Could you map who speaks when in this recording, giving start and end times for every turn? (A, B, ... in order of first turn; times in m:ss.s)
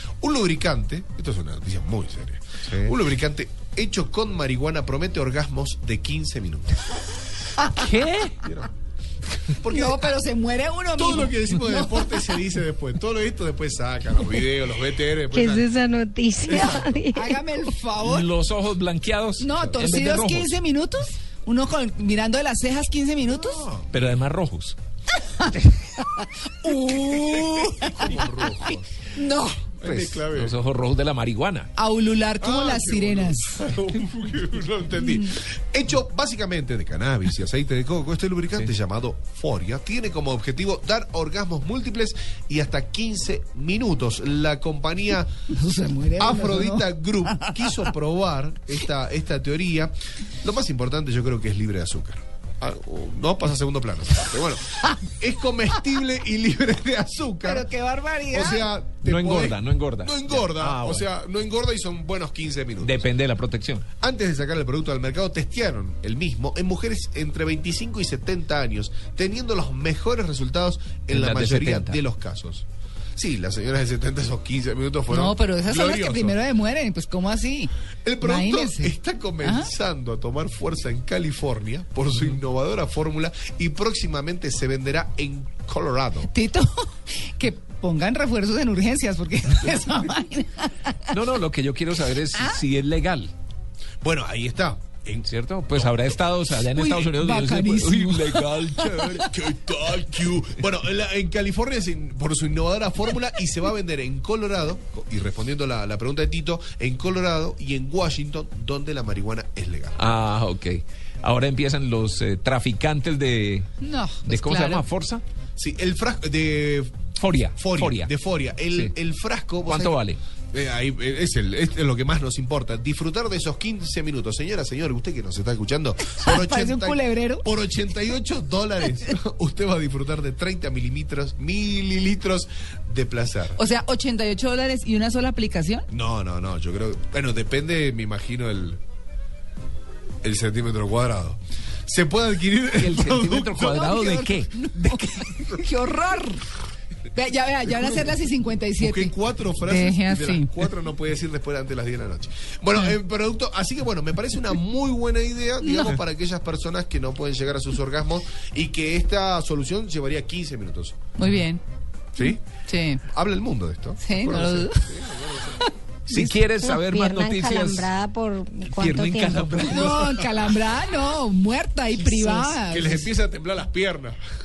0:00.2-0:06.8 A
0:07.6-0:08.3 B
0:07.7-0:08.7 A
0:09.6-0:10.1 A
0:09.6-0:12.3 B
0:10.9-0:15.7 A
0:15.3-0:17.4 C
0:16.4-0:17.0 A
0:17.1-0:18.3 B
0:18.0-0:20.6 D
0:19.4-0:23.7 B
0:23.2-0:23.9 A
0:23.9-0:24.7 D
0:25.5-0:28.2 B
0:26.8-0:29.0 A
0:29.1-0:29.6 B
0:29.8-0:30.6 A
0:29.8-0:31.7 D
0:31.8-0:33.7 B
0:32.4-0:45.3 A
0:35.0-0:35.3 B
0:45.5-0:47.6 B
0:46.2-0:57.7 A
0:57.4-0:58.6 B
0:58.3-1:03.0 A
0:59.0-1:01.0 D
1:02.8-1:03.8 D
1:04.0-1:12.6 A
1:11.1-1:12.0 D
1:13.2-1:16.4 A
1:15.1-1:17.7 B
1:18.0-1:26.3 A
1:18.2-1:19.7 B
1:26.3-1:31.1 B
1:31.1-1:33.3 D
1:34.0-1:36.1 A
1:35.2-1:39.3 D
1:36.6-1:39.0 B
1:38.9-1:50.0 A
1:50.0-1:53.6 D
1:53.8-1:54.8 B
1:54.2-1:55.2 D
1:55.6-2:13.6 A
1:57.2-1:58.1 D
1:59.6-2:00.2 D
2:06.1-2:07.4 B
2:13.6-2:15.9 B
2:15.9-2:18.8 A
2:20.2-2:23.8 A
2:22.8-2:24.5 D
2:23.6-2:26.5 B
2:24.9-2:25.6 A
2:27.1-2:29.1 B
2:28.8-2:41.0 A
2:29.6-2:30.5 B
2:35.6-2:36.0 B
2:41.2-2:41.6 B
2:42.2-2:43.0 B
2:43.0-2:45.7 A
2:44.0-2:44.9 B
2:46.1-2:47.9 D
2:46.7-2:49.6 C
2:48.6-2:50.2 D
2:49.7-2:53.1 B
2:52.3-2:54.2 A